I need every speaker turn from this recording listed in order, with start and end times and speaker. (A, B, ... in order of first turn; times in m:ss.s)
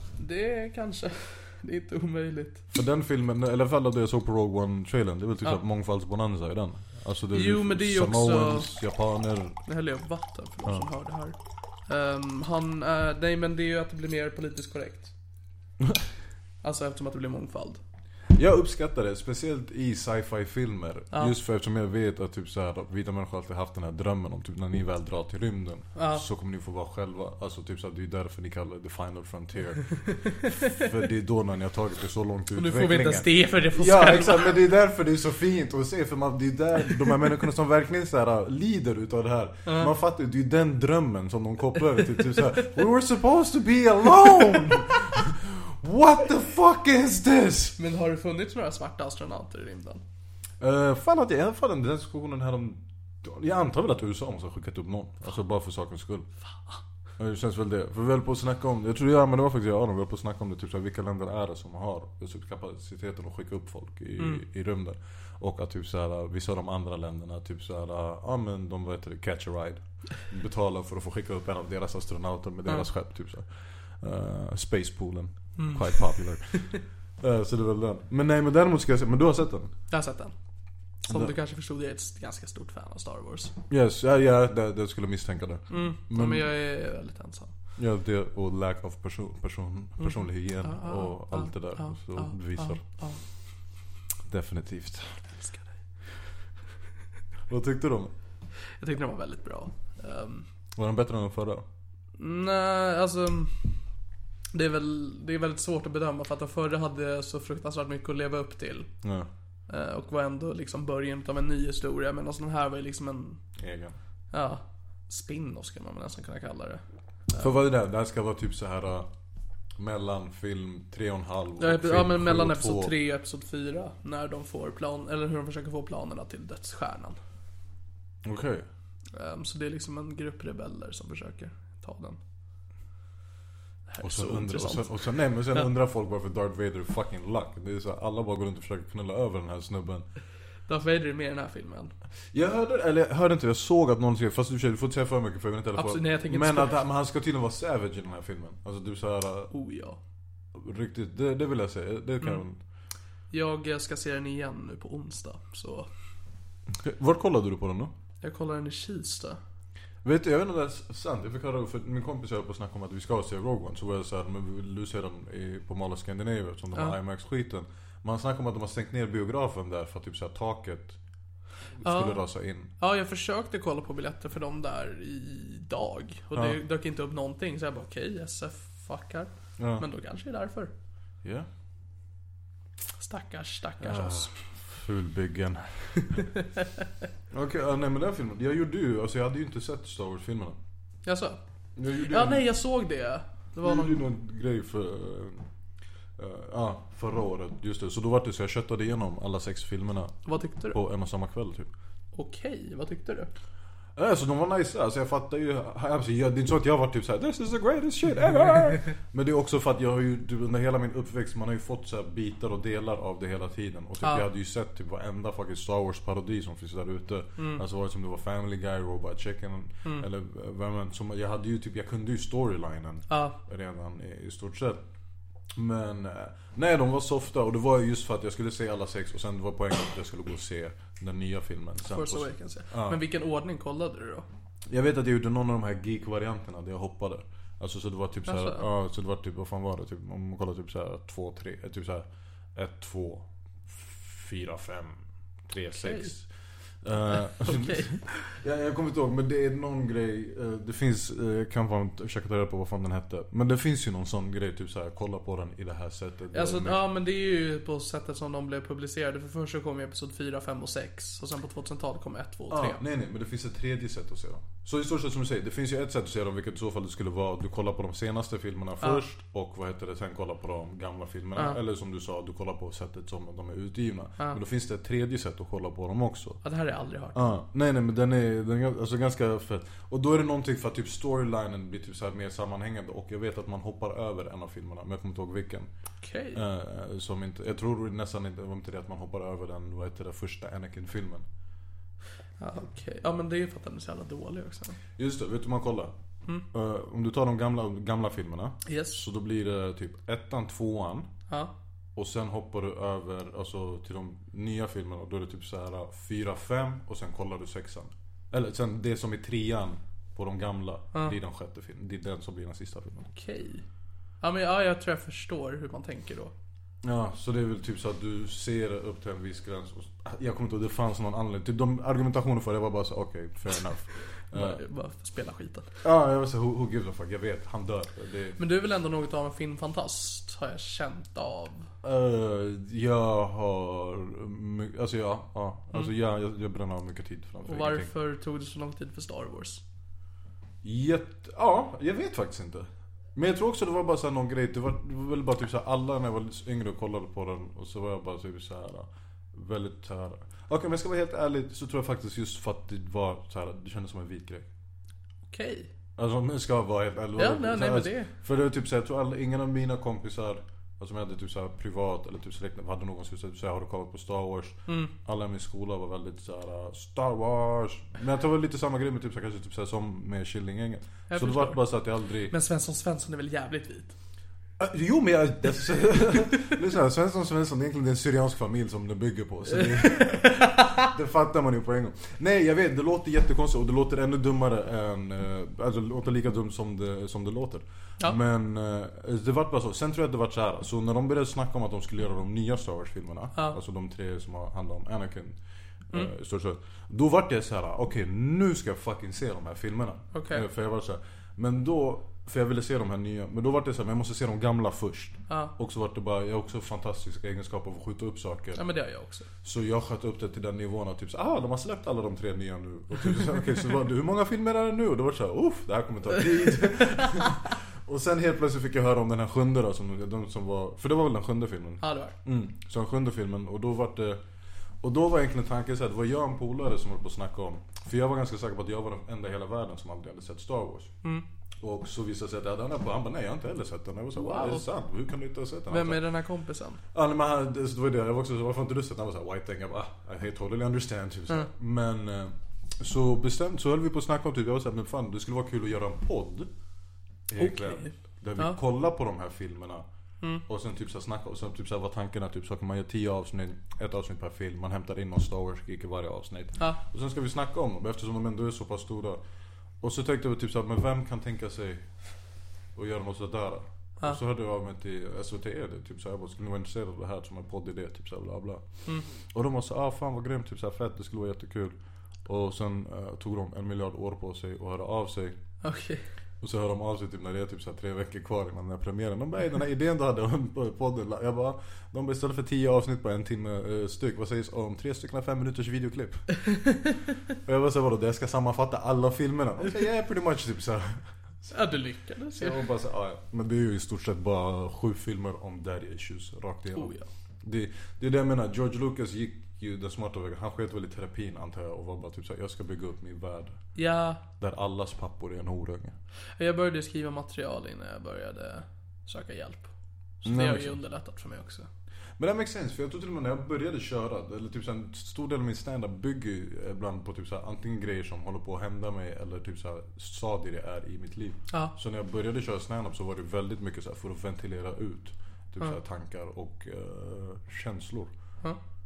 0:00.2-0:02.6 A
0:02.7-0:09.6 B
0:07.3-0:08.7 A
0:09.6-0:15.1 A
0:16.6-0:17.8 A
0:18.3-0:47.8 B
0:25.9-0:26.2 A
0:32.5-0:34.6 A
0:39.6-0:39.9 A
0:47.8-0:50.0 A
0:50.6-0:56.3 B
0:56.5-0:56.8 A
0:57.2-1:19.7 B
1:04.2-1:04.4 A
1:15.6-1:16.6 A
1:19.9-1:20.3 A
1:21.0-1:23.5 A
1:21.1-1:21.3 B
1:23.7-1:26.5 B
1:25.7-1:27.5 A
1:27.8-1:32.8 B
1:30.0-1:33.2 A
1:34.2-1:35.2 B
1:35.4-1:35.7 A
1:37.5-1:38.1 B
1:38.8-1:40.5 A
1:40.7-1:41.6 B
1:42.2-1:43.7 A
1:44.5-1:48.9 A
1:49.0-1:49.3 B
1:49.7-1:53.4 A
1:53.6-1:54.0 B
1:54.3-1:57.5 A
1:57.3-1:59.1 B
1:59.8-2:02.9 B
2:01.6-2:07.2 A
2:08.2-2:08.7 B
2:09.1-2:12.2 A
2:13.9-2:15.7 A
2:14.0-2:20.0 B
2:20.7-2:21.9 A
2:22.3-2:29.5 B
2:25.7-2:26.8 A
2:29.5-2:30.0 A
2:30.5-2:32.6 B
2:33.3-2:35.9 A
2:36.7-2:37.9 B
2:38.2-2:39.4 A
2:40.0-2:51.0 B
2:51.8-2:52.7 B
2:51.8-3:00.7 A
2:56.3-2:56.6 B
2:59.6-2:59.8 B
3:01.2-3:01.5 B
3:03.0-3:04.3 A
3:03.8-3:06.2 B
3:06.2-3:06.4 A
3:07.3-3:10.6 B
3:11.0-3:11.4 A
3:11.8-3:12.4 B
3:12.0-3:14.0 A
3:13.6-3:15.4 B
3:16.2-3:21.7 B
3:20.2-3:20.8 A
3:22.1-3:23.3 A
3:24.0-3:44.8 B
3:43.1-3:43.4 A
3:45.5-3:53.0 B
3:51.9-3:54.2 A
3:54.7-4:06.3 B
3:58.3-3:58.6 A
4:05.7-4:06.1 A
4:06.8-4:16.8 B
4:07.3-4:08.2 A
4:16.3-4:22.8 A
4:22.5-4:36.4 B
4:36.4-4:37.3 A
4:37.1-4:45.7 B
4:46.0-4:46.4 A
4:46.3-4:51.2 B
4:52.4-4:54.8 A
4:55.0-4:55.9 B
4:56.5-5:01.1 B
4:58.7-4:59.0 A
5:01.9-5:13.1 B
5:13.1-5:13.6 A
5:14.2-5:16.3 A
5:16.8-5:24.6 B
5:24.3-5:25.7 A
5:25.8-5:28.4 B
5:28.4-5:31.7 A
5:31.8-5:37.9 B
5:37.4-5:39.6 A
5:40.6-5:54.5 B
5:55.3-5:55.7 A
5:56.0-6:12.3 B
5:57.2-5:58.1 A
6:04.7-6:04.9 A
6:11.1-6:11.6 A
6:12.3-6:13.9 A
6:14.6-6:35.4 B
6:19.8-6:20.7 A
6:35.9-6:48.6 B
6:40.1-6:40.4 A
6:45.3-6:45.5 A
6:48.5-6:49.3 A
6:49.4-7:04.2 B
7:01.8-7:02.1 A
7:04.8-7:10.9 B
7:11.6-7:16.0 B
7:14.2-7:14.7 A
7:15.7-7:16.8 A
7:16.9-7:26.5 B
7:27.3-7:29.8 B
7:27.4-7:28.6 A
7:30.4-7:39.2 B
7:39.8-7:41.9 B
7:42.7-7:55.4 B
7:55.6-7:56.0 A
7:56.4-8:06.3 B
8:06.5-8:06.9 A
8:07.4-8:11.5 B
8:11.5-8:12.6 A
8:12.3-8:23.6 B
8:16.7-8:17.1 A
8:23.8-8:24.2 A
8:24.3-8:26.0 B
8:26.4-8:31.7 A
8:30.2-8:30.8 B
8:32.2-8:48.1 B